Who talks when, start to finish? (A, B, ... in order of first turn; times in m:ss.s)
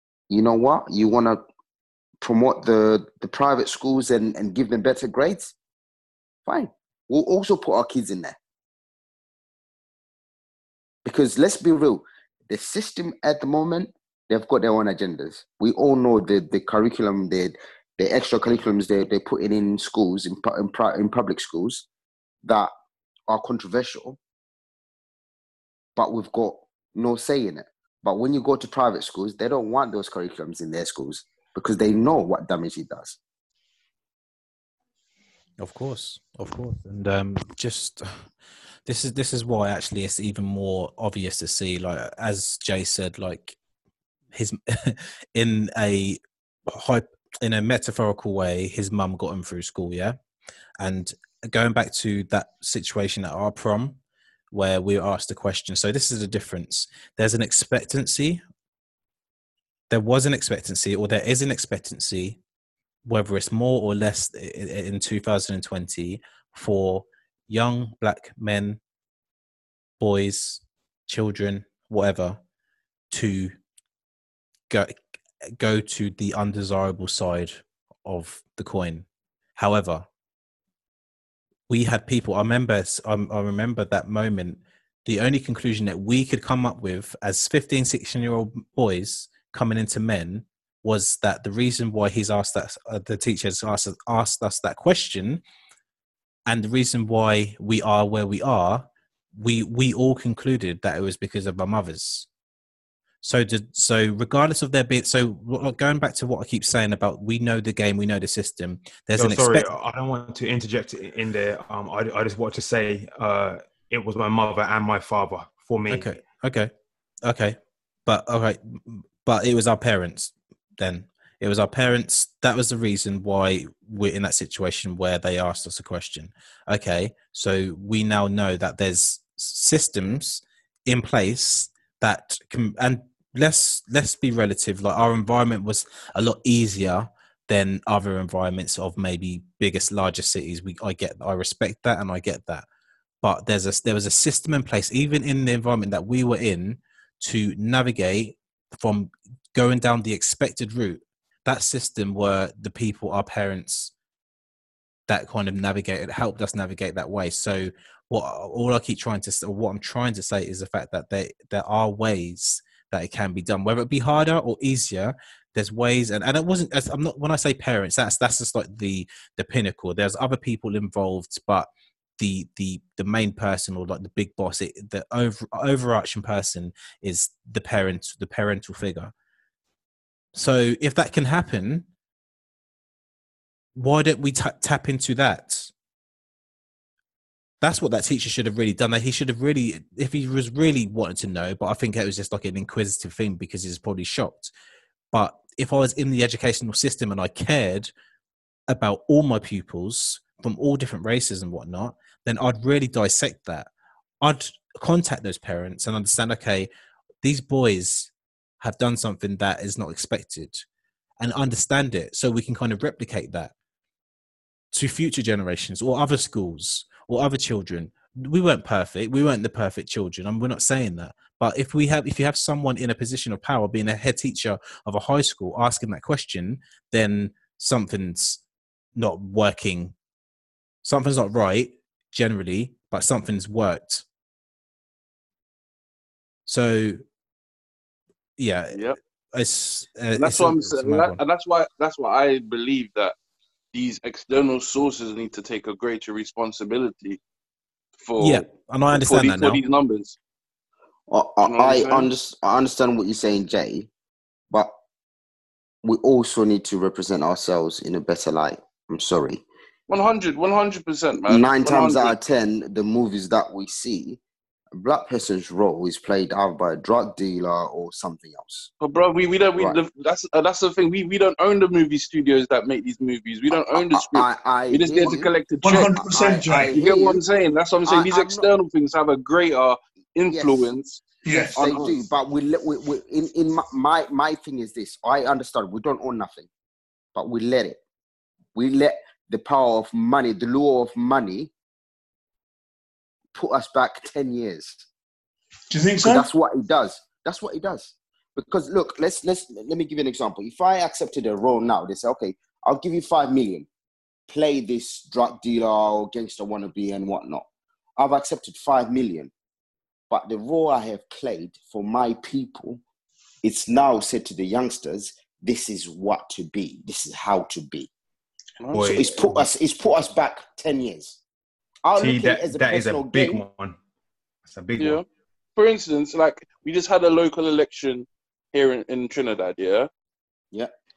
0:00.3-0:01.4 A
0:02.2-0:05.5 A
0:06.4-0:08.4 A
0:11.0-0:21.8 A
0:22.4-0:22.7 A
0:23.3-0:24.2 A
0:26.0-0:33.2 A
0:35.6-0:38.3 B
0:38.8-0:43.6 B
0:44.3-0:50.2 B
0:50.8-0:54.0 B
0:54.5-0:58.4 B
0:59.9-1:02.4 B
1:03.0-1:08.8 B
1:10.0-1:12.4 B
1:13.1-1:13.6 B
1:14.7-1:14.9 B
1:15.6-1:19.0 B
1:19.6-1:20.1 B
1:21.7-1:35.4 B
1:36.5-1:42.3 B
1:43.2-1:49.7 B
1:49.2-1:56.1 C
1:55.9-1:56.7 B
1:57.2-2:22.6 B
2:23.2-2:33.9 B
2:35.1-2:59.1 B
3:00.4-3:01.9 B
3:03.8-3:05.7 B
3:07.6-3:14.5 B
3:15.1-3:17.9 B
3:18.7-3:23.7 B
3:24.2-3:26.7 B
3:27.2-3:30.6 B
3:31.2-3:33.5 B
3:34.7-3:48.4 B
3:49.0-3:49.9 B
3:50.8-3:54.0 B
3:56.5-3:57.0 B
3:58.4-4:01.2 B
4:00.2-4:03.2 D
4:03.7-4:07.2 D
4:08.0-4:10.2 D
4:08.2-4:09.6 B
4:11.1-4:13.9 A
4:11.4-4:12.1 D
4:15.8-4:19.4 A
4:19.9-4:22.1 D
4:21.2-4:24.2 A
4:24.7-4:28.7 A
4:28.8-4:41.9 D
4:33.7-4:35.3 A
4:35.6-4:36.7 E
4:36.1-4:37.2 A
4:37.8-4:38.5 A
4:40.3-4:40.7 A
4:41.2-4:41.6 E
4:41.5-4:46.5 A
4:47.1-4:47.8 A
4:48.6-4:51.5 A
4:53.4-4:54.8 A
4:55.7-4:56.3 E
4:56.0-5:03.7 A
5:04.3-5:07.4 A
5:08.0-5:09.3 A
5:10.1-5:12.8 A
5:13.4-5:17.9 A
5:18.6-5:19.1 D
5:18.7-5:19.4 C
5:18.9-5:21.2 A
5:21.8-5:23.4 A
5:22.0-5:23.8 C
5:24.4-5:25.0 C
5:24.8-5:25.0 D
5:25.6-5:29.9 D